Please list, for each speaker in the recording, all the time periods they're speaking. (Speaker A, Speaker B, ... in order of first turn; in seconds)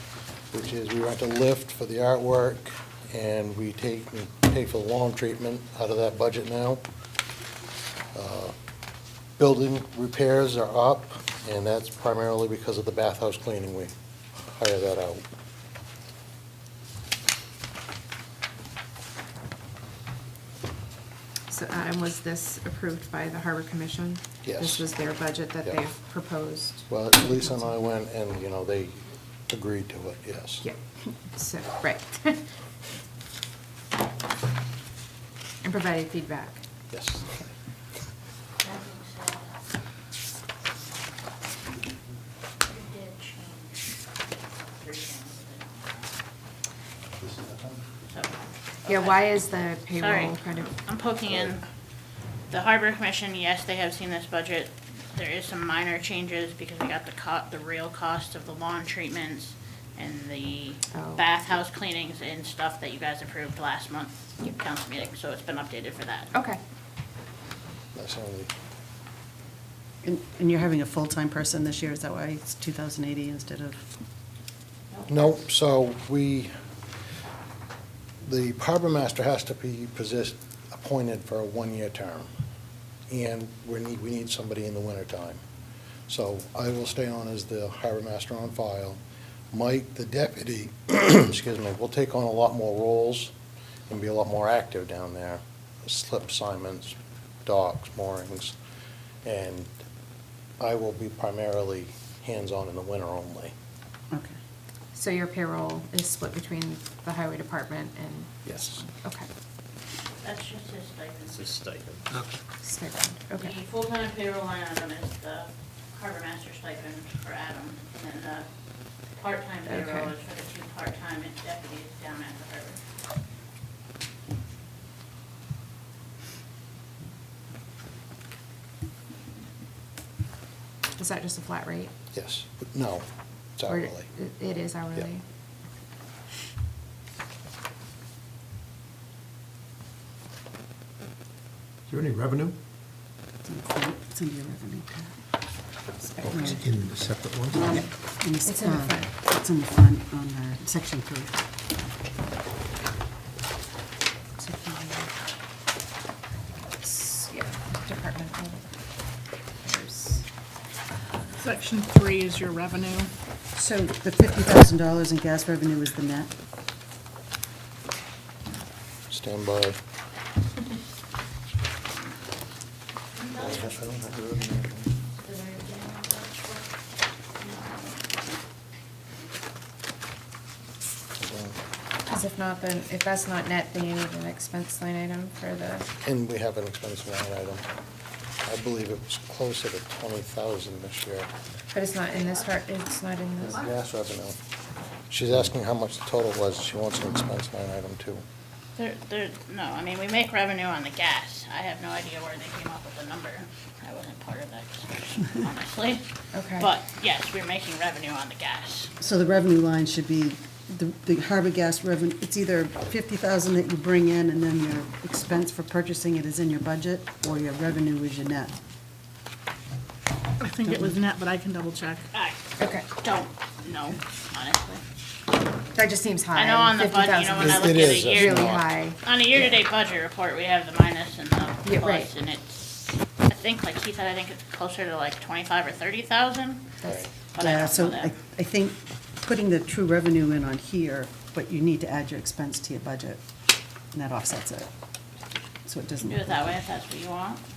Speaker A: 0.5-6.8, 8.1-8.5, 9.4-15.2, 24.4-24.9, 26.9-30.6, 36.9-37.5, 67.9-68.5, 75.1-76.5, 78.2-82.3, 83.1-85.4, 86.1-89.0, 89.5-93.3, 93.9-96.9, 97.5-98.5, 99.2-99.7, 100.6-103.5, 108.4-108.8, 132.1-133.0, 133.6-134.1, 169.1-169.8, 173.3-174.9, 181.2-181.6, 186.0-187.6, 188.4-191.3, 193.4-194.3, 195.1-198.2, 227.4-228.7
Speaker B: 21.5-27.7, 30.6-32.4, 35.6-36.6, 48.9-50.7, 60.9-61.2, 66.3-66.6, 104.9-109.3, 112.6-113.5, 119.7-120.1, 130.9-131.9, 133.7-135.2, 146.0-146.6, 148.4-149.1, 154.4-155.1, 156.8-158.8, 159.6-160.3, 182.1-185.9, 191.7-193.7, 206.3-206.7, 222.6-222.9, 225.7-229.5, 231.6-232.1, 236.8-237.1
Speaker C: 38.6-39.6, 42.6-43.9, 44.7-46.1, 48.1-51.6, 52.5-66.3, 110.2-111.6, 113.4-118.5, 119.1-122.8, 173.2-173.7, 175.2-176.7, 177.4-178.2, 192.1-192.4, 198.8-208.9, 220.8-222.4, 222.9-224.8, 226.3-236.6, 237.3-238.1, 246.1-247.4
Speaker D: 70.0-73.8, 104.1-104.3, 143.5-145.1, 146.3-146.6, 147.7-151.4, 163.5-166.3, 209.0-218.5, 220.6-220.9, 237.4-243.2, 243.9-244.7, 245.6-246.4
Speaker E: 111.4-112.2, 141.9-142.5, 146.2-147.8
Speaker F: 161.4-163.1, 220.5-221.8